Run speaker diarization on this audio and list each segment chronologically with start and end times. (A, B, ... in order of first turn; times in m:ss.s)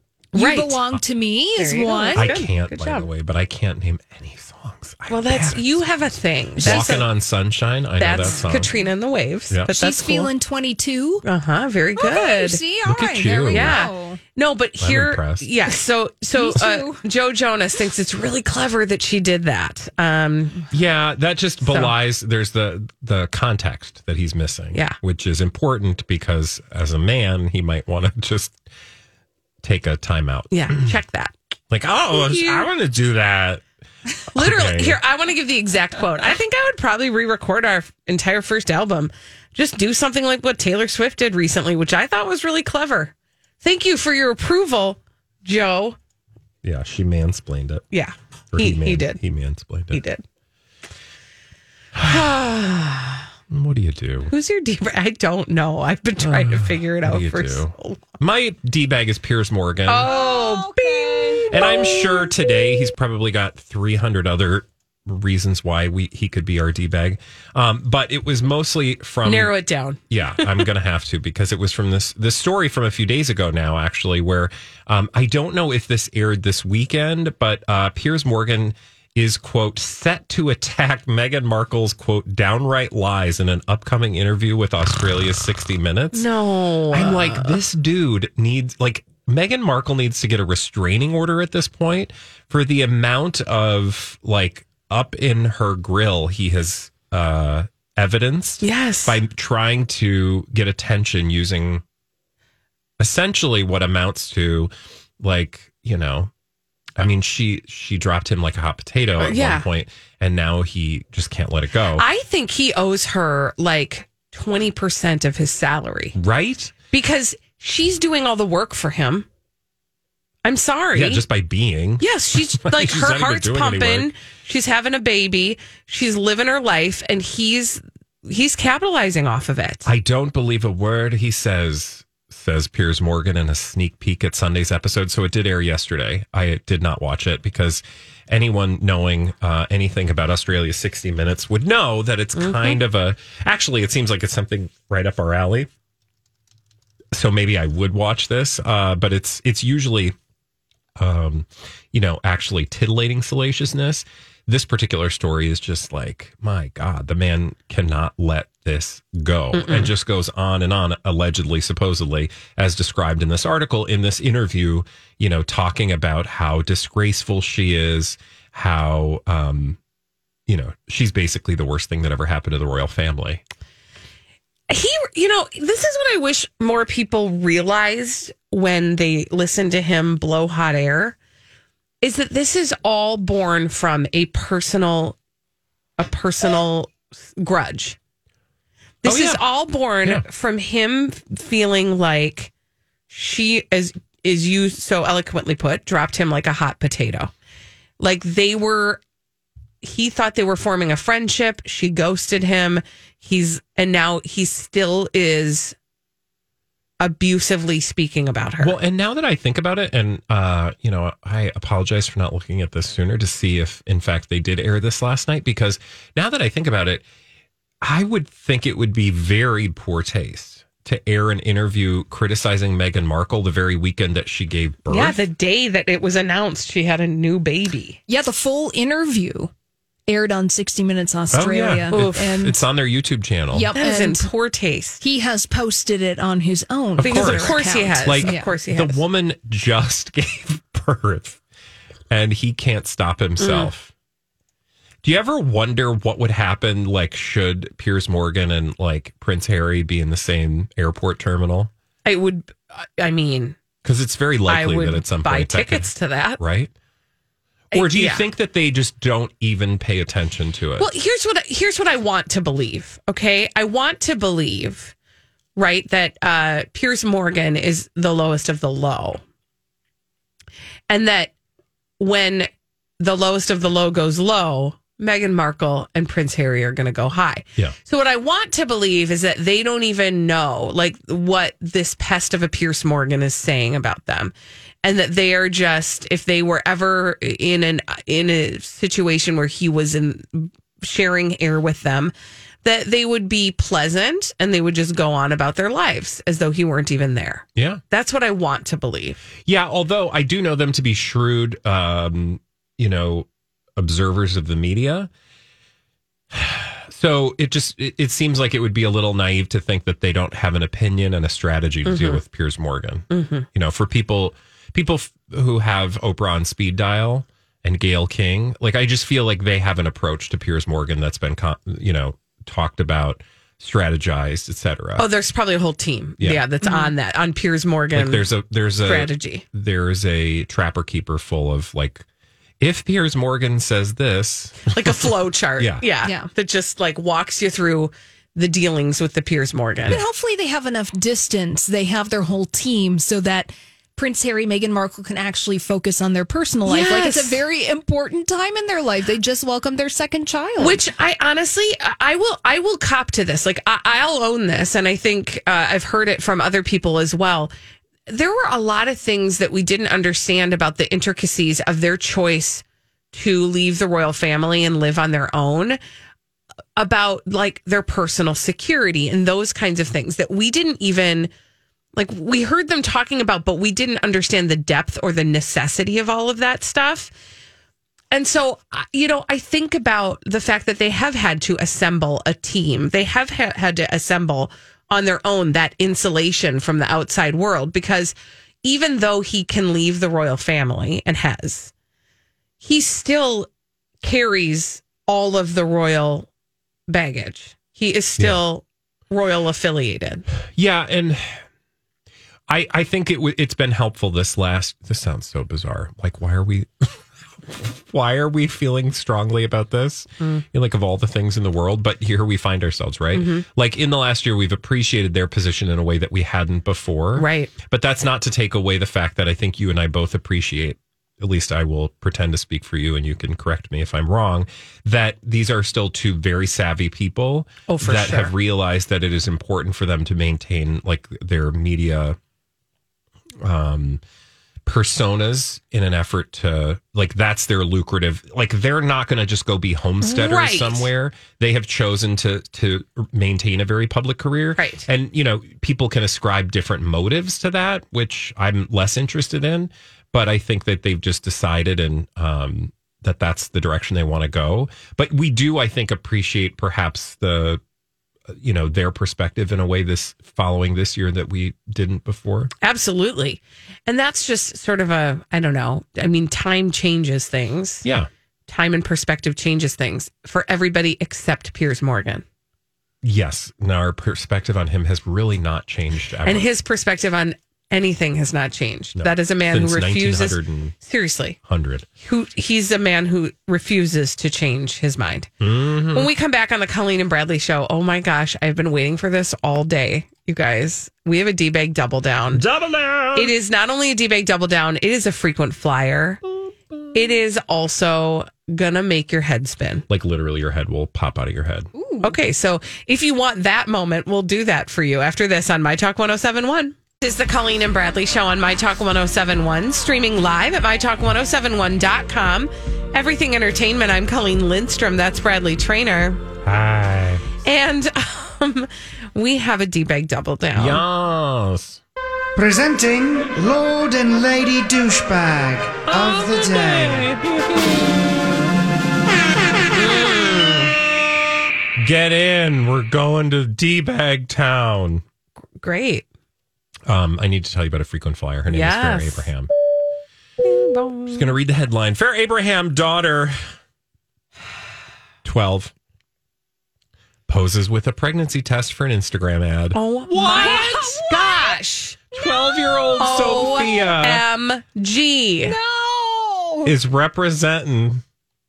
0:00.3-0:00.8 A
0:00.3-0:02.4 B
0:01.6-0:03.1 A
0:02.1-0:05.8 C
0:05.1-0:07.1 A
0:06.6-0:07.0 B
0:06.6-0:08.7 C
0:08.0-0:10.3 A
0:09.7-0:11.2 B
0:11.2-0:12.6 A
0:12.0-0:14.2 B
0:12.8-0:13.8 C
0:13.5-0:20.6 A
0:14.8-0:15.5 C
0:16.3-0:17.0 B
0:20.7-0:28.6 C
0:21.6-0:21.9 A
0:29.6-0:30.9 C
0:30.5-0:31.3 A
0:31.7-0:33.6 C
0:32.1-0:32.7 A
0:34.3-0:35.0 C
0:34.3-0:46.0 A
0:46.6-0:47.8 C
0:47.9-0:49.2 A
0:48.5-0:50.0 C
0:49.9-0:50.2 A
0:52.0-0:52.3 C
0:52.0-0:53.2 A
0:53.5-0:54.3 C
0:54.3-0:58.0 A
0:56.2-1:00.1 C
0:59.9-1:02.3 A
1:00.0-1:01.5 B
1:01.5-1:09.5 C
1:09.2-1:10.0 A
1:10.1-1:26.3 C
1:26.1-1:27.6 A
1:26.9-1:41.8 C
1:38.6-1:39.2 A
1:43.0-1:46.3 C
1:47.0-1:52.0 C
1:49.2-1:49.7 A
1:52.0-1:56.1 A
1:56.1-1:56.7 C
1:56.9-1:59.2 A
2:00.4-2:01.2 A
2:00.9-2:04.1 C
2:02.0-2:09.9 A
2:09.8-2:25.7 C
2:22.4-2:22.8 A
2:27.1-2:30.1 C
2:31.0-2:49.8 C
2:39.5-2:39.9 A
2:50.5-2:53.4 C
2:54.7-3:01.2 A
3:02.0-3:05.2 A
3:06.0-3:08.0 A
3:09.0-3:12.5 A
3:09.0-3:09.4 C
3:13.1-3:17.3 A
3:18.0-3:19.0 A
3:19.8-3:25.7 A
3:27.0-3:28.8 A
3:28.6-3:37.0 C
3:37.8-3:45.2 C
3:44.9-3:48.0 A
3:48.1-3:49.5 B
3:50.1-3:52.6 B
3:51.3-3:53.7 C
3:51.9-3:52.2 A
3:53.5-3:54.3 B
3:53.7-3:55.0 A
3:55.0-3:58.5 B
3:57.0-3:59.0 A
3:57.0-4:01.4 C
4:02.1-4:03.9 C
4:03.4-4:03.7 A
4:05.0-4:11.7 C
4:12.0-4:13.6 A
4:13.8-4:16.7 C
4:14.5-4:16.4 A
4:17.7-4:18.2 A
4:17.7-4:20.9 C
4:20.8-4:24.9 A
4:25.6-4:29.2 A
4:30.9-4:31.3 A
4:32.0-4:32.5 A
4:33.0-4:44.3 A
4:44.8-4:52.1 A
4:52.6-4:59.2 A
4:57.6-4:57.8 C
4:59.4-5:05.1 C
5:06.3-5:25.1 C
5:11.8-5:12.2 A
5:13.1-5:13.4 A
5:25.0-5:28.2 A
5:26.2-5:26.4 C
5:26.6-5:26.9 B
5:27.9-5:32.0 C
5:28.8-5:29.4 A
5:32.6-5:35.8 C
5:34.7-5:40.0 A
5:36.0-5:36.3 B
5:39.9-5:50.8 B
5:46.6-5:47.4 A
5:50.6-5:57.5 A
5:58.1-6:05.8 A
6:06.8-6:11.3 A
6:12.0-6:17.1 A
6:18.1-6:31.7 A
6:32.6-6:33.5 A
6:34.0-6:36.3 A
6:36.9-6:40.2 A
6:40.6-6:41.4 C
6:42.5-7:12.2 C
6:53.1-6:53.4 A
6:57.2-6:57.5 A
7:07.7-7:08.3 A
7:13.4-7:14.0 C
7:14.6-7:37.6 C
7:20.0-7:20.9 A
7:24.6-7:24.8 A
7:38.3-7:42.5 C
7:42.6-7:47.8 A
7:47.8-7:48.1 C
7:48.5-7:52.2 A
7:53.0-7:56.5 C
7:56.2-8:01.4 A
7:59.0-8:00.8 C
8:01.4-8:01.9 C
8:02.0-8:05.3 A
8:05.4-8:06.1 C
8:05.9-8:12.4 A
8:12.3-8:13.3 C
8:13.1-8:16.2 A
8:16.9-8:19.8 A
8:19.9-8:21.7 C
8:21.7-8:22.2 B
8:22.0-8:36.2 A
8:36.4-8:37.3 C
8:37.4-8:40.8 A
8:40.5-8:41.8 C
8:42.4-8:47.1 D
8:45.9-8:47.6 C
8:49.7-8:50.7 A
8:51.8-8:55.0 C
8:55.6-8:56.0 A
8:56.9-8:59.5 C
8:58.5-8:59.3 A
9:00.4-9:01.3 A
9:01.1-9:03.4 C
9:05.2-9:05.7 C
9:07.3-9:11.1 C
9:09.7-9:12.3 A
9:10.2-9:10.7 B
9:12.1-9:14.2 C
9:13.0-9:15.6 A
9:15.4-9:16.7 B
9:16.6-9:18.0 C